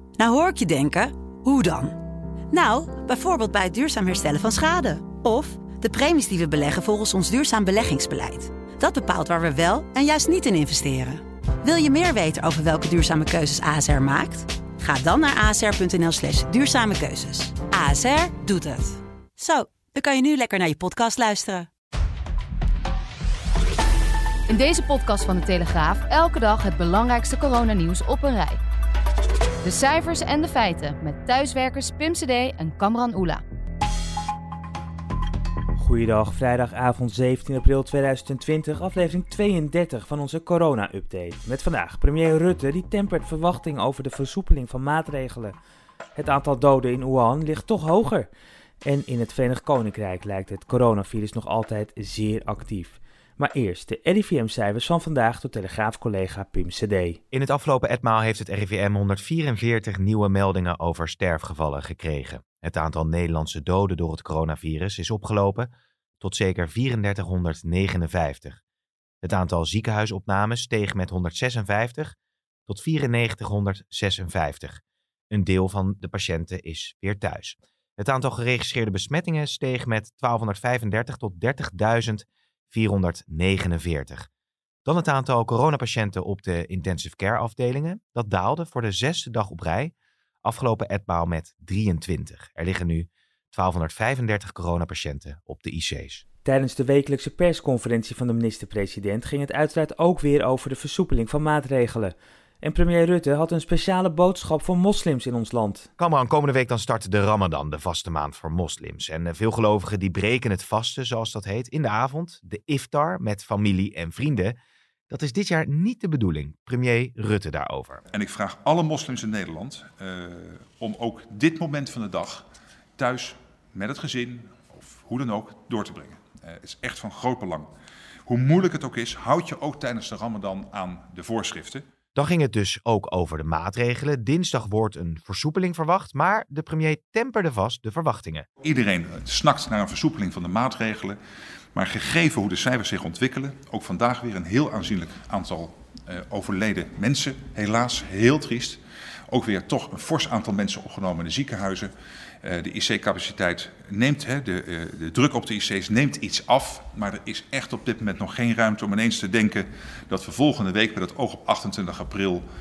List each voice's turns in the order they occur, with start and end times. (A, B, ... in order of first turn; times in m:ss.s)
0:00.2-0:02.0 A
0:02.5-0:21.7 A
0:24.5-0:28.6 B
0:29.6-0:33.4 B
0:35.8-0:45.6 C
0:46.2-0:48.3 C
0:48.8-0:57.2 C
0:57.3-1:05.7 D
1:06.2-1:08.6 D
1:09.2-1:12.2 D
1:12.7-1:24.3 D
1:24.8-1:29.9 D
1:30.4-1:36.2 D
1:36.4-1:45.9 C
1:46.0-1:54.5 D
1:55.1-1:58.0 D
1:58.1-2:02.4 E
2:03.0-2:07.7 E
2:08.2-2:11.8 E
2:12.2-2:18.4 D
2:18.6-2:21.2 E
2:21.7-2:31.9 E
2:32.4-2:42.4 E